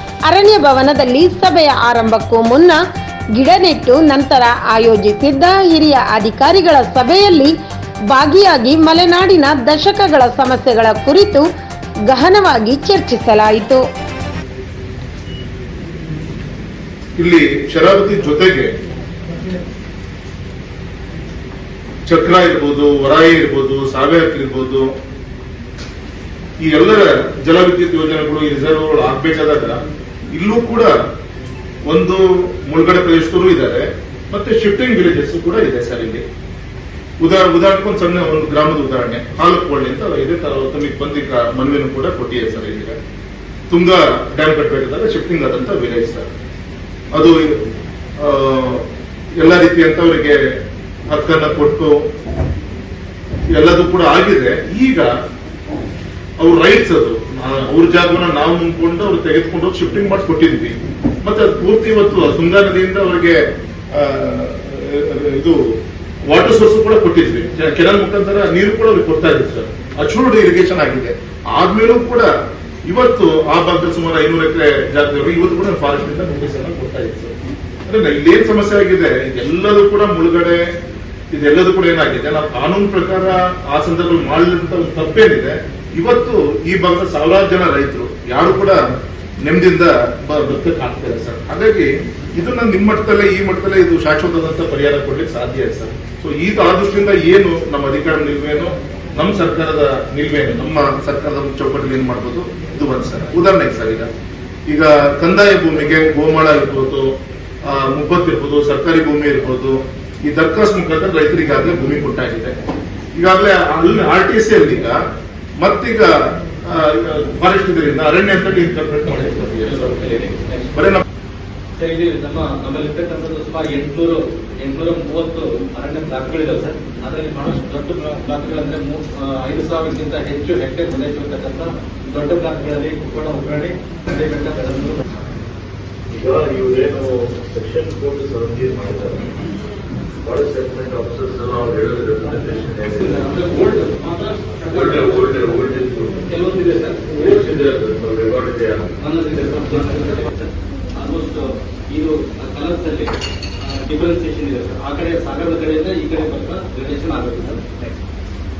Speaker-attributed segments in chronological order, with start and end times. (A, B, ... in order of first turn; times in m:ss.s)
0:00.3-0:02.8 A
0:03.3-0:07.5 A
0:08.1-0:11.4 A
0:12.1-0:13.8 A
0:17.2-0:18.7 B
0:22.0-0:24.9 B
0:26.6-0:29.8 B
0:30.3-0:30.9 B
0:31.9-0:36.2 B
0:37.2-0:43.0 B
0:43.7-0:46.3 B
0:47.1-0:47.6 B
0:48.2-0:48.8 B
0:49.4-0:50.4 B
0:51.1-0:52.0 B
0:53.5-0:55.1 B
0:56.4-1:05.6 B
1:06.3-1:12.3 B
1:12.9-1:17.3 B
1:17.9-1:20.6 B
1:21.3-1:28.8 B
1:29.4-1:44.1 B
1:44.7-1:47.1 B
1:47.6-1:52.6 B
1:53.2-1:55.0 B
1:55.6-1:56.1 B
1:56.6-2:00.0 B
1:59.6-2:00.9 C
2:00.7-2:01.0 B
2:01.8-2:15.0 C
2:16.1-2:19.3 D
2:20.2-2:23.2 D
2:23.0-2:25.4 C
2:24.7-2:26.2 D
2:26.2-2:27.5 C
2:27.1-2:28.9 D
2:29.0-2:37.8 C